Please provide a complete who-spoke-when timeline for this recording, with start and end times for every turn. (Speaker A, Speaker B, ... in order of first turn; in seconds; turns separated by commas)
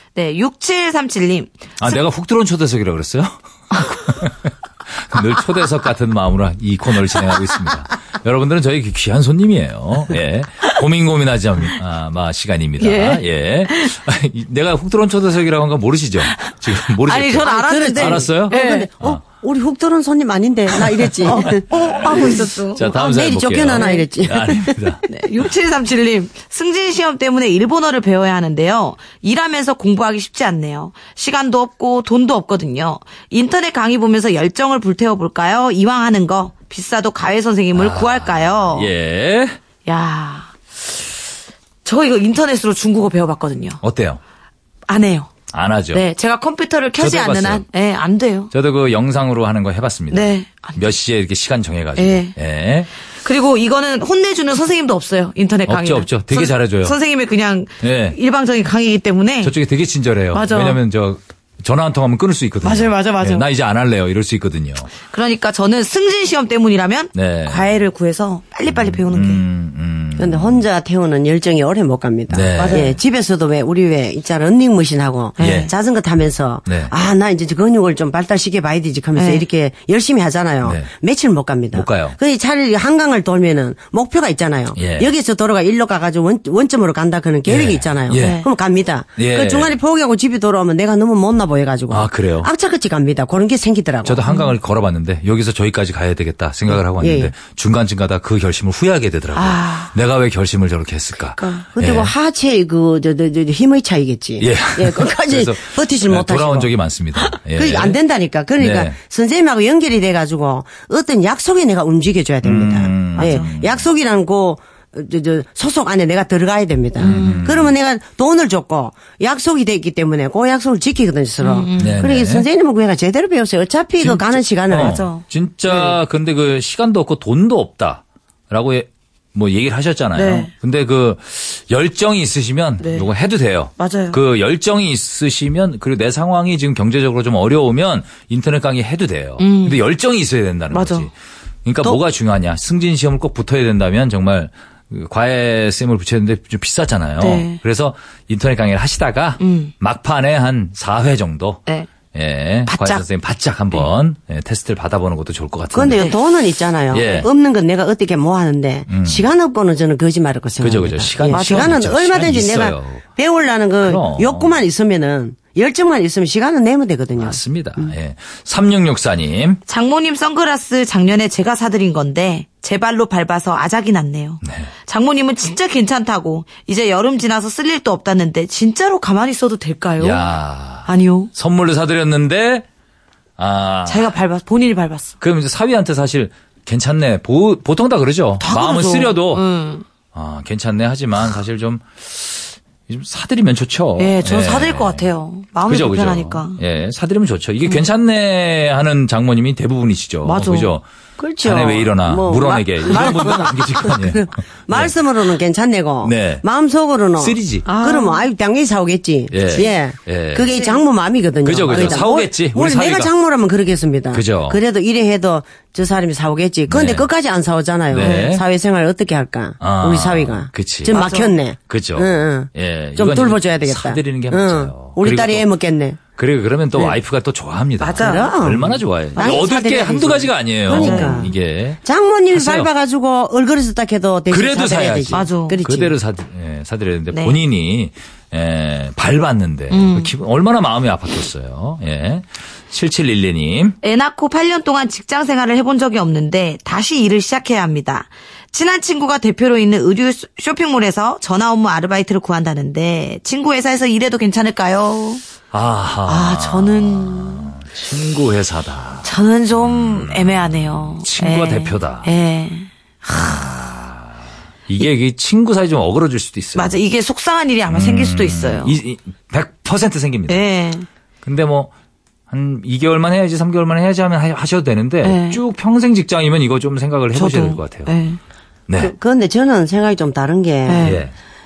Speaker A: 0.1-1.9, Speaker B: 1.8-19.2, Speaker A: 12.8-13.9, Speaker A: 16.3-18.9, Speaker C: 17.4-22.3, Speaker A: 21.2-22.9, Speaker B: 21.5-25.1, Speaker C: 22.9-24.8, Speaker A: 23.8-24.0, Speaker A: 25.1-38.9, Speaker B: 37.7-39.6, Speaker A: 39.9-40.5, Speaker A: 41.8-43.8, Speaker B: 43.8-44.2, Speaker A: 44.9-45.3, Speaker B: 45.5-46.0, Speaker A: 45.9-48.5, Speaker B: 47.0-47.6, Speaker B: 48.5-52.9, Speaker A: 50.1-50.8, Speaker A: 52.0-52.3, Speaker A: 53.2-59.5, Speaker B: 55.7-57.0, Speaker B: 57.8-58.2, Speaker B: 59.4-64.9, Speaker A: 60.3-60.8, Speaker A: 62.6-63.5, Speaker A: 65.0-69.4, Speaker B: 67.1-67.7, Speaker B: 68.7-70.6, Speaker C: 70.2-94.2, Speaker B: 72.3-72.9, Speaker A: 72.6-72.9, Speaker A: 75.4-75.7, Speaker B: 75.4-75.7, Speaker B: 76.7-76.9, Speaker A: 79.2-79.4, Speaker B: 80.6-80.9, Speaker B: 81.7-82.2, Speaker B: 84.8-85.1, Speaker B: 87.5-88.4, Speaker A: 88.1-88.5, Speaker B: 89.2-89.8, Speaker B: 91.9-92.5, Speaker B: 94.0-102.1, Speaker A: 94.3-94.5, Speaker C: 96.8-97.3, Speaker A: 99.3-99.9, Speaker A: 101.4-101.6, Speaker C: 101.7-106.7, Speaker B: 104.4-108.0, Speaker C: 107.5-125.0, Speaker B: 108.6-108.9, Speaker B: 112.4-113.8, Speaker A: 113.2-113.5, Speaker A: 117.0-117.5, Speaker B: 117.0-117.7, Speaker A: 121.4-122.0, Speaker B: 121.8-122.5, Speaker B: 124.0-141.1, Speaker A: 124.7-126.0, Speaker A: 130.1-130.5, Speaker A: 132.8-133.1, Speaker A: 133.8-134.2, Speaker A: 139.4-139.8, Speaker A: 140.7-141.1, Speaker B: 141.6-156.1, Speaker A: 147.2-147.6, Speaker A: 149.4-149.7, Speaker A: 152.7-153.0, Speaker C: 155.7-167.9, Speaker B: 156.9-157.3, Speaker B: 158.9-159.2, Speaker B: 160.6-163.0, Speaker A: 161.2-161.8, Speaker B: 163.8-164.6, Speaker B: 167.2-169.6, Speaker A: 169.7-180.3, Speaker B: 174.4-174.7, Speaker B: 180.0-182.6, Speaker A: 180.8-181.3, Speaker B: 183.4-184.1, Speaker A: 183.8-185.1, Speaker B: 185.2-189.4, Speaker A: 188.4-189.8, Speaker B: 190.1-195.0, Speaker A: 194.0-196.6, Speaker B: 195.7-200.8, Speaker A: 200.2-200.7, Speaker C: 201.2-226.0, Speaker B: 201.4-204.9, Speaker B: 206.0-206.4, Speaker B: 207.2-207.7, Speaker A: 207.6-208.3, Speaker B: 209.3-210.5, Speaker A: 210.5-210.8, Speaker B: 211.4-213.1, Speaker B: 214.1-214.6, Speaker B: 216.7-217.1, Speaker B: 217.9-218.4, Speaker A: 218.0-218.3, Speaker B: 219.6-221.0, Speaker A: 220.9-221.3, Speaker B: 221.7-225.5, Speaker B: 226.2-231.8, Speaker A: 227.8-228.3, Speaker C: 227.9-235.9, Speaker A: 229.2-229.4, Speaker A: 230.7-231.3, Speaker B: 232.3-232.7, Speaker B: 234.3-243.8, Speaker A: 235.1-235.6, Speaker A: 237.1-237.4, Speaker A: 239.7-240.1, Speaker A: 243.8-255.2, Speaker B: 255.5-262.1, Speaker A: 256.1-257.5, Speaker A: 259.0-263.5, Speaker B: 263.1-264.1, Speaker B: 264.7-266.8, Speaker A: 266.5-268.7, Speaker B: 267.7-270.4, Speaker A: 270.3-270.9, Speaker B: 271.2-271.7, Speaker B: 272.3-277.9, Speaker A: 275.0-275.4, Speaker A: 277.1-278.2, Speaker B: 278.7-278.9, Speaker C: 278.8-281.0, Speaker A: 280.7-281.0, Speaker B: 280.8-281.1